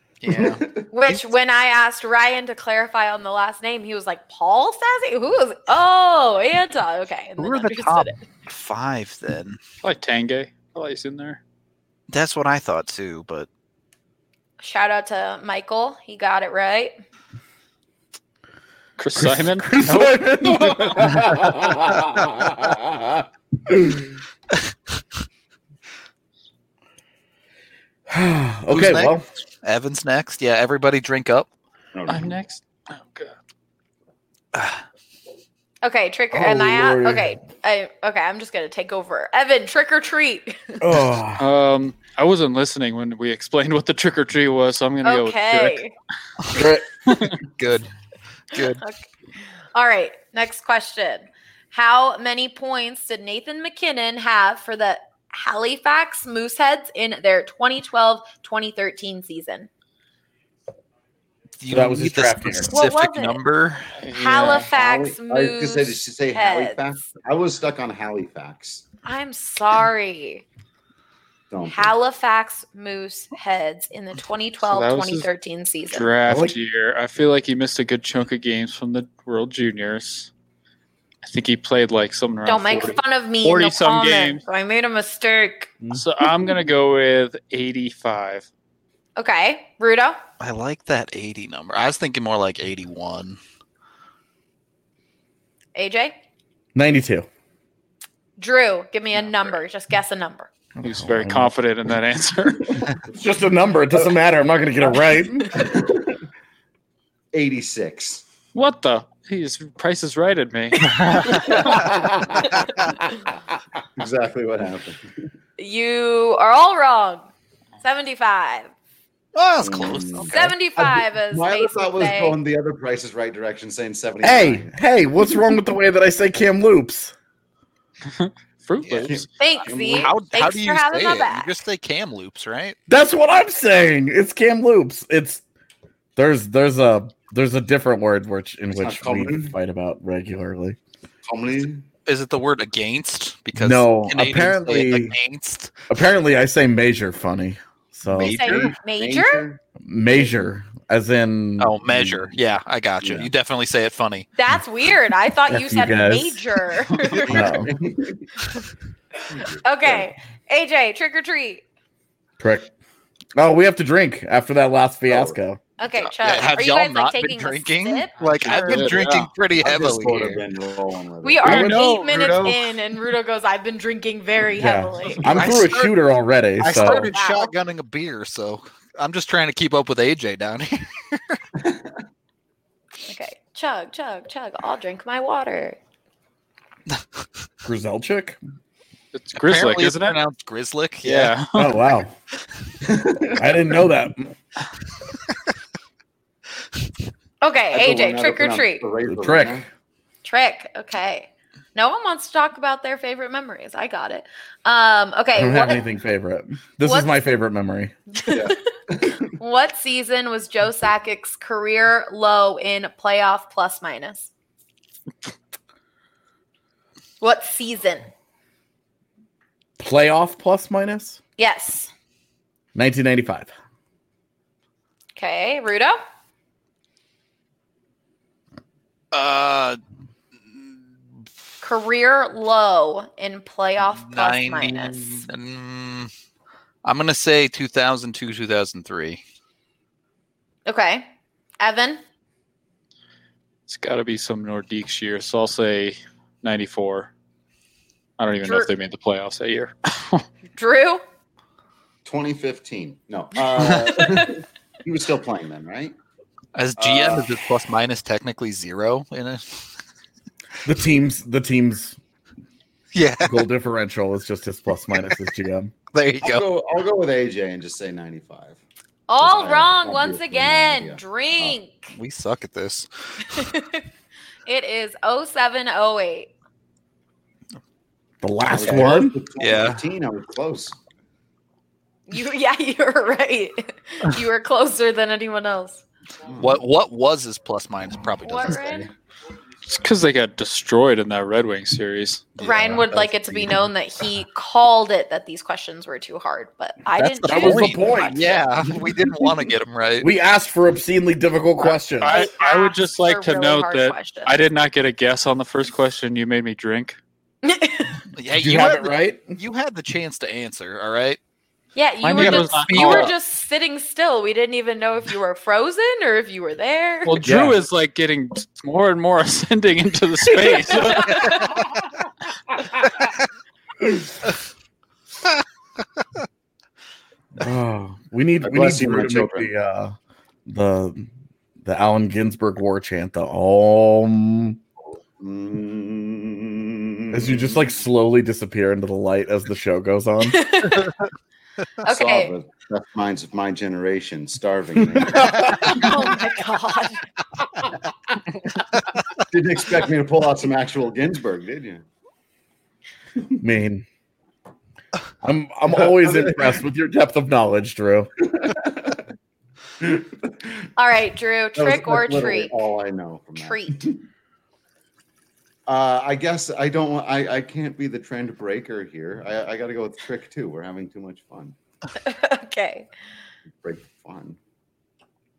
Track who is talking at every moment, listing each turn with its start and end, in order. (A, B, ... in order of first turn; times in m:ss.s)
0:00.2-0:01.2 A
0:00.3-0:00.8 B
0:00.9-0:08.2 C
0:07.4-0:09.6 A
0:09.8-0:11.4 D
0:12.1-0:13.5 A
0:14.6-0:17.0 C
0:19.0-0:20.8 D
0:19.2-0:24.1 E
0:28.1-0:29.2 E
0:28.7-0:31.5 A
0:31.9-0:32.4 B
0:32.1-0:33.3 D
0:34.5-0:34.8 A
0:35.8-0:40.8 C
0:36.3-0:37.3 E
0:40.8-0:41.4 E
0:41.4-0:45.8 D
0:45.0-0:45.9 C
0:46.5-0:46.8 E
0:47.1-0:47.4 D
0:47.4-0:47.9 A
0:48.5-0:48.8 A
0:48.5-0:49.0 C
0:49.8-0:59.7 C
1:01.6-1:03.9 A
1:01.7-1:02.7 E
1:02.7-1:03.4 C
1:04.0-1:04.7 D
1:04.1-1:06.8 C
1:04.7-1:08.8 B
1:09.0-1:10.4 C
1:11.5-1:11.9 B
1:11.7-1:16.1 C
1:14.6-1:15.3 D
1:15.9-1:20.3 D
1:16.2-1:16.6 E
1:21.2-1:24.4 D
1:22.5-1:25.7 C
1:25.9-1:28.5 D
1:29.2-1:30.2 C
1:30.4-1:33.4 A
1:35.8-1:36.2 C
1:36.8-1:37.3 E
1:38.4-1:40.5 C
1:40.8-1:41.5 E
1:40.8-1:42.9 D
1:43.1-1:45.8 E
1:45.6-1:46.2 B
1:47.3-1:48.2 B
1:48.5-1:51.8 D
1:50.8-1:51.8 A
1:51.2-1:51.7 C
1:52.6-1:52.9 A
1:54.0-1:55.0 B
1:55.6-1:57.3 C
1:57.8-1:58.7 C
1:59.4-2:00.6 A
1:59.6-2:04.8 B
2:00.3-2:02.4 C
2:04.2-2:07.1 E
2:08.1-2:09.3 D
2:08.8-2:09.1 A
2:09.0-2:10.1 B
2:09.4-2:11.5 C
2:10.0-2:12.8 A
2:12.9-2:15.4 E
2:16.2-2:20.8 E
2:18.7-2:19.5 B
2:21.3-2:21.8 B
2:22.1-2:25.7 A
2:23.6-2:25.2 E
2:25.9-2:28.4 E
2:28.1-2:28.8 A
2:28.1-2:29.5 C
2:28.4-2:29.6 B
2:29.8-2:32.3 E
2:31.6-2:34.3 A
2:33.0-2:33.3 B
2:34.4-2:37.6 C
2:35.5-2:36.4 E
2:36.9-2:38.4 B
2:37.3-2:37.7 E
2:39.3-2:40.1 B
2:39.6-2:41.6 C
2:42.4-2:42.7 E
2:43.4-2:45.6 E
2:45.1-2:45.4 B
2:45.8-2:48.9 C
2:46.2-2:50.4 A
2:48.5-2:49.2 D
2:48.6-2:51.7 B
2:51.2-2:55.2 C
2:51.4-2:51.8 E
2:51.4-2:52.6 D
2:54.6-2:57.1 E
2:55.3-2:56.0 A
2:56.6-3:01.4 A
2:56.8-2:57.5 C
3:01.6-3:02.0 B
3:03.1-3:05.8 C
3:07.6-3:08.4 E
3:09.1-3:10.2 D
3:09.4-3:11.3 A
3:11.0-3:11.8 D
3:11.6-3:12.1 E
3:12.8-3:13.5 B
3:13.4-3:14.3 E
3:17.4-3:18.8 C
3:17.7-3:19.7 B
3:19.1-3:19.7 E
3:20.2-3:25.8 C
3:25.4-3:28.0 E
3:26.8-3:27.2 C
3:28.2-3:28.6 C
3:28.3-3:29.2 B
3:29.4-3:34.3 C
3:37.2-3:38.1 C
3:39.8-3:41.2 E
3:41.4-3:41.9 C
3:42.8-3:43.5 E
3:45.2-3:46.0 C
3:49.1-3:49.8 A
3:51.6-3:55.3 C
3:53.9-3:56.1 A
3:56.8-3:59.2 A
4:00.7-4:01.1 C
4:01.6-4:02.0 C
4:03.7-4:07.1 D
4:08.2-4:10.2 D
4:08.4-4:08.7 C
4:10.6-4:11.0 C
4:12.0-4:16.0 B
4:14.0-4:14.3 C
4:16.6-4:19.6 A
4:16.8-4:17.4 B
4:20.6-4:22.0 E
4:22.9-4:23.4 A
4:23.2-4:25.7 E
4:25.9-4:26.4 A
4:26.2-4:28.6 B
4:29.1-4:31.9 C
4:29.2-4:31.6 B
4:31.9-4:33.4 A
4:33.3-4:33.8 C
4:34.5-4:36.3 C
4:38.2-4:39.2 E
4:38.5-4:40.8 B
4:39.4-4:39.8 A
4:42.1-4:45.8 C
4:46.3-4:46.6 B
4:46.4-4:48.9 A
4:48.2-4:48.9 C
4:48.4-4:48.9 B
4:49.7-4:52.3 D
4:52.4-4:53.1 A
4:52.4-4:58.3 C
4:57.0-5:00.1 A
4:57.2-4:58.4 E
5:00.0-5:02.3 E
5:02.0-5:07.0 D
5:02.0-5:04.4 C
5:07.4-5:08.0 C
5:08.2-5:11.2 A
5:08.3-5:09.4 E
5:11.8-5:17.2 C
5:12.0-5:13.1 D
5:12.2-5:13.1 A
5:17.0-5:21.5 D
5:17.2-5:17.6 E
5:20.7-5:21.6 C
5:27.4-5:30.0 E
5:28.4-5:29.5 B
5:30.5-5:31.1 E
5:31.6-5:34.6 E
5:34.9-5:37.7 B
5:37.1-5:40.4 E
5:40.3-5:41.0 C
5:41.8-5:42.3 C
5:41.8-5:46.0 B
5:45.5-5:47.0 C
5:49.3-5:51.8 B
5:53.4-5:53.9 E
5:55.2-5:58.1 E
5:55.8-5:56.6 B
5:58.4-5:59.0 B
5:59.8-6:00.5 B
6:00.8-6:02.5 C
6:01.6-6:04.0 B
6:03.4-6:03.8 C
6:05.7-6:11.6 B
6:12.0-6:12.9 C
6:13.6-6:14.4 B